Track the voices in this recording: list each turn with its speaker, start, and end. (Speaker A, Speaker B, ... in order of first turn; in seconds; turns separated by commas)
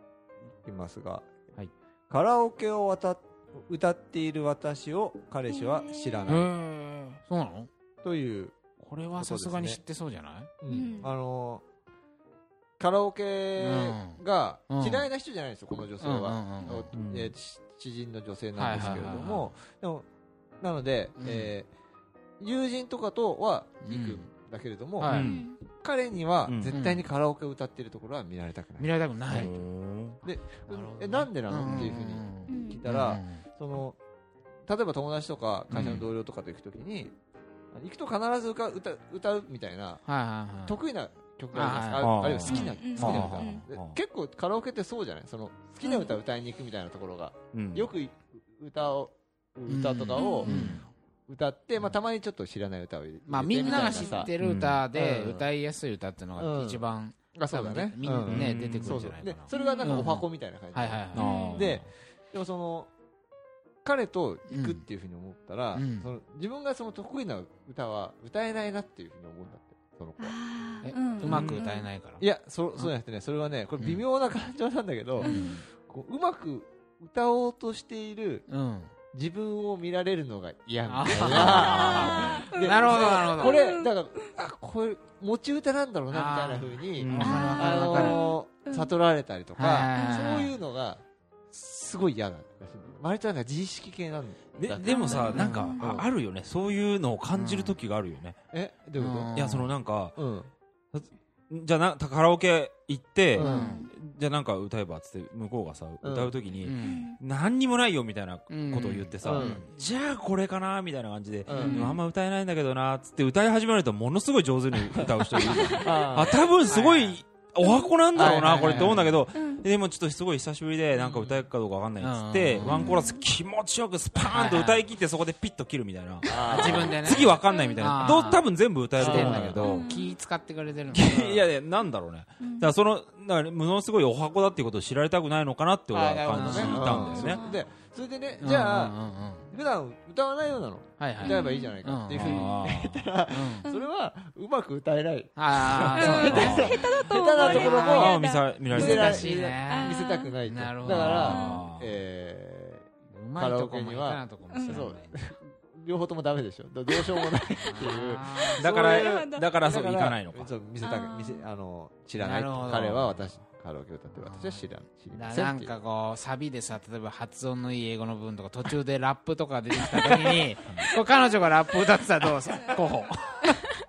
Speaker A: 0.6-1.3, Speaker A: 2.1-6.5, Speaker B: 5.5-6.3, Speaker C: 6.3-7.7, Speaker A: 8.0-8.6, Speaker C: 8.8-10.5, Speaker A: 9.2-9.8, Speaker A: 10.6-11.6, Speaker B: 10.7-11.1, Speaker A: 12.8-20.1, Speaker C: 13.6-15.1, Speaker C: 16.0-16.9, Speaker D: 16.9-17.3, Speaker C: 18.6-19.5, Speaker D: 18.7-19.4, Speaker A: 20.6-21.7, Speaker C: 21.2-21.5, Speaker A: 22.4-29.6, Speaker C: 23.8-24.3, Speaker C: 25.0-25.3, Speaker D: 25.1-25.4, Speaker B: 25.1-25.6, Speaker D: 26.5-26.8, Speaker C: 26.7-27.0, Speaker C: 28.8-29.5, Speaker D: 29.3-30.2, Speaker A: 30.2-34.0, Speaker C: 30.7-33.4, Speaker B: 32.5-32.8, Speaker A: 34.7-37.1, Speaker C: 35.7-36.0, Speaker D: 35.7-36.0, Speaker A: 37.7-40.0, Speaker C: 40.1-40.8, Speaker A: 40.6-50.5, Speaker C: 41.5-43.5, Speaker D: 42.0-44.0, Speaker B: 42.5-43.6, Speaker B: 45.8-46.1, Speaker D: 47.5-47.9, Speaker C: 49.7-50.9, Speaker B: 50.1-50.5, Speaker D: 50.5-50.9, Speaker A: 51.3-54.3, Speaker C: 53.3-61.5, Speaker B: 53.6-54.3, Speaker D: 54.4-54.8, Speaker A: 54.9-55.5, Speaker A: 56.4-56.8, Speaker A: 57.4-62.9, Speaker D: 58.2-59.0, Speaker B: 59.5-60.1, Speaker D: 61.1-61.9, Speaker B: 61.2-61.7, Speaker A: 63.8-70.4, Speaker C: 64.5-64.8, Speaker C: 65.7-66.1, Speaker B: 70.2-71.9, Speaker C: 70.8-72.2, Speaker D: 71.2-71.6, Speaker A: 72.2-78.5, Speaker B: 75.2-75.6, Speaker C: 75.2-75.6, Speaker C: 78.5-78.9, Speaker A: 79.1-96.1, Speaker C: 80.9-83.6, Speaker B: 81.3-84.3, Speaker C: 86.1-88.2, Speaker D: 87.0-87.6, Speaker B: 87.2-88.9, Speaker C: 89.6-90.5, Speaker B: 90.0-90.5, Speaker D: 94.6-98.4, Speaker B: 94.8-96.0, Speaker C: 95.3-95.8, Speaker C: 97.3-97.8, Speaker A: 98.5-99.3, Speaker C: 99.0-99.7, Speaker D: 99.3-100.2, Speaker A: 100.2-100.5, Speaker D: 100.9-129.8, Speaker A: 103.4-103.8, Speaker C: 103.4-103.9, Speaker B: 103.4-103.9, Speaker A: 106.0-106.3, Speaker C: 106.6-107.1, Speaker B: 106.8-107.2, Speaker C: 108.5-109.7, Speaker A: 109.2-109.6, Speaker A: 111.5-112.0, Speaker C: 111.5-112.0, Speaker A: 114.9-116.5, Speaker B: 115.5-116.0, Speaker C: 116.7-117.2, Speaker B: 117.6-118.3, Speaker A: 118.1-119.2, Speaker C: 118.2-119.2, Speaker B: 119.3-119.6, Speaker A: 121.0-121.4, Speaker C: 122.0-123.0, Speaker B: 122.6-123.3, Speaker C: 124.3-124.8, Speaker A: 126.2-127.2, Speaker B: 126.3-128.4, Speaker C: 126.5-128.5, Speaker A: 129.0-129.6, Speaker C: 129.0-131.4, Speaker B: 129.6-130.1, Speaker D: 130.9-137.4, Speaker A: 131.0-131.4, Speaker B: 132.4-132.7, Speaker A: 135.9-139.0, Speaker C: 136.2-137.3, Speaker B: 137.0-137.6, Speaker C: 138.4-139.5, Speaker A: 139.5-148.2, Speaker C: 141.0-143.7, Speaker B: 141.2-142.5, Speaker D: 142.2-142.5, Speaker B: 143.7-143.9, Speaker C: 145.4-146.8, Speaker B: 146.0-148.9, Speaker D: 146.2-146.8, Speaker D: 147.4-149.3, Speaker A: 148.7-165.7, Speaker C: 148.7-151.4, Speaker B: 149.7-150.4, Speaker D: 150.9-151.9, Speaker B: 151.1-151.7, Speaker C: 153.1-155.2, Speaker B: 154.5-154.9, Speaker B: 156.9-157.3, Speaker C: 157.6-158.6, Speaker B: 158.4-159.6, Speaker D: 158.6-160.5, Speaker B: 160.8-161.4, Speaker C: 162.2-163.2, Speaker C: 164.2-173.7, Speaker B: 172.6-172.9